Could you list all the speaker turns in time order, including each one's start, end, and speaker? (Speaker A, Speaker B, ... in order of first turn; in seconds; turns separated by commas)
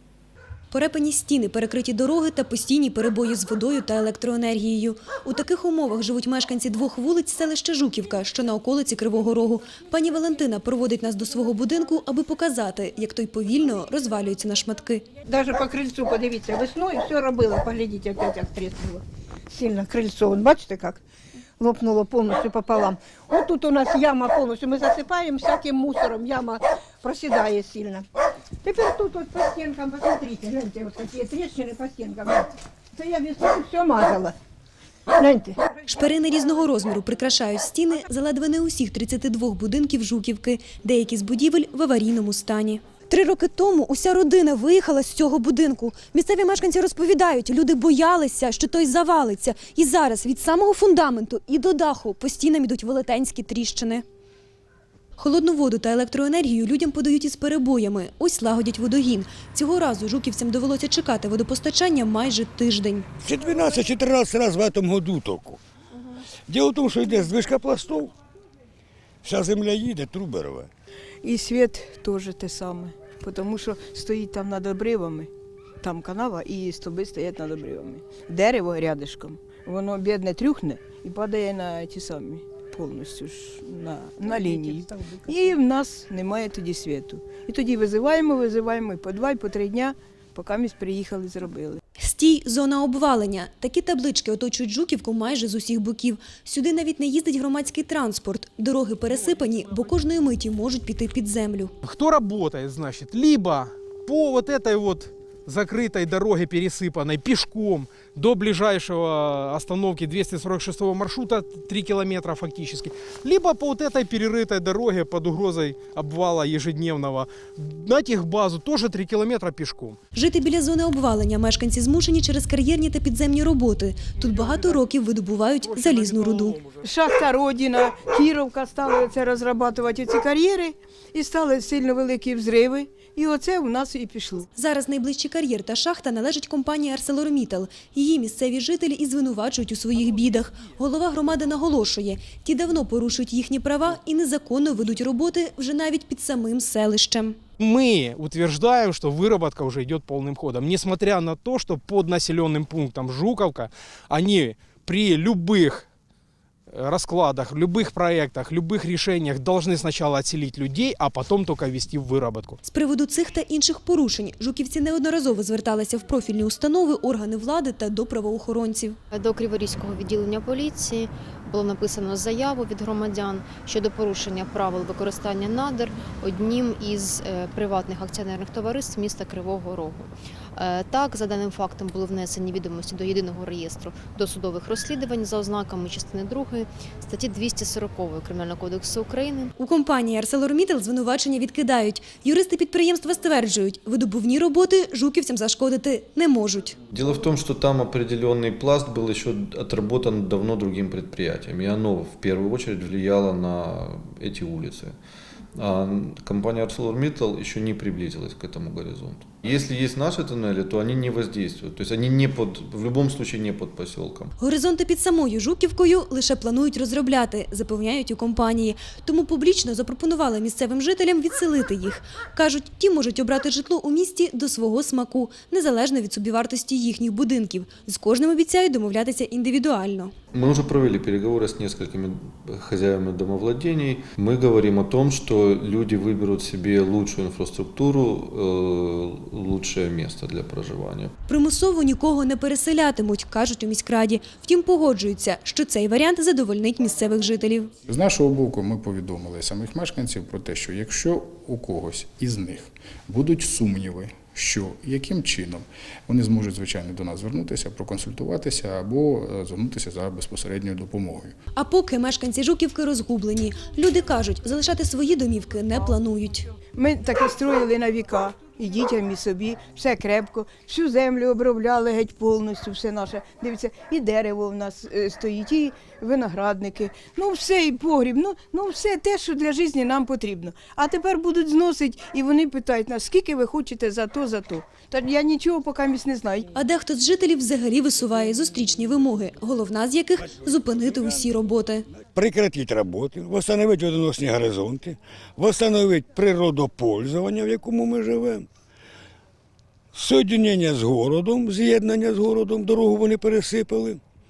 Speaker A: 0.7-15.0, Speaker B: 15.2-21.0, Speaker B: 21.6-28.0, Speaker B: 28.6-34.3, Speaker B: 35.2-35.6, Speaker A: 35.9-54.0, Speaker A: 55.2-63.1, Speaker C: 63.2-65.6, Speaker C: 66.5-68.1, Speaker C: 69.2-70.7, Speaker D: 71.2-91.8, Speaker B: 84.2-85.5, Speaker A: 92.0-101.7, Speaker E: 101.8-120.0, Speaker A: 120.1-126.6, Speaker E: 124.3-124.8, Speaker E: 125.6-126.8, Speaker D: 126.8-134.4, Speaker A: 134.5-147.4, Speaker E: 147.6-155.8, Speaker E: 156.7-162.6, Speaker A: 162.6-169.0, Speaker F: 169.1-189.5, Speaker A: 189.6-196.8, Speaker G: 196.9-204.9, Speaker G: 205.6-214.3, Speaker A: 214.4-230.1, Speaker G: 230.3-241.1, Speaker A: 241.3-247.7, Speaker H: 247.9-261.4, Speaker A: 261.5-266.5, Speaker D: 266.7-286.5, Speaker A: 286.5-291.9, Speaker C: 292.0-298.5, Speaker C: 299.9-304.0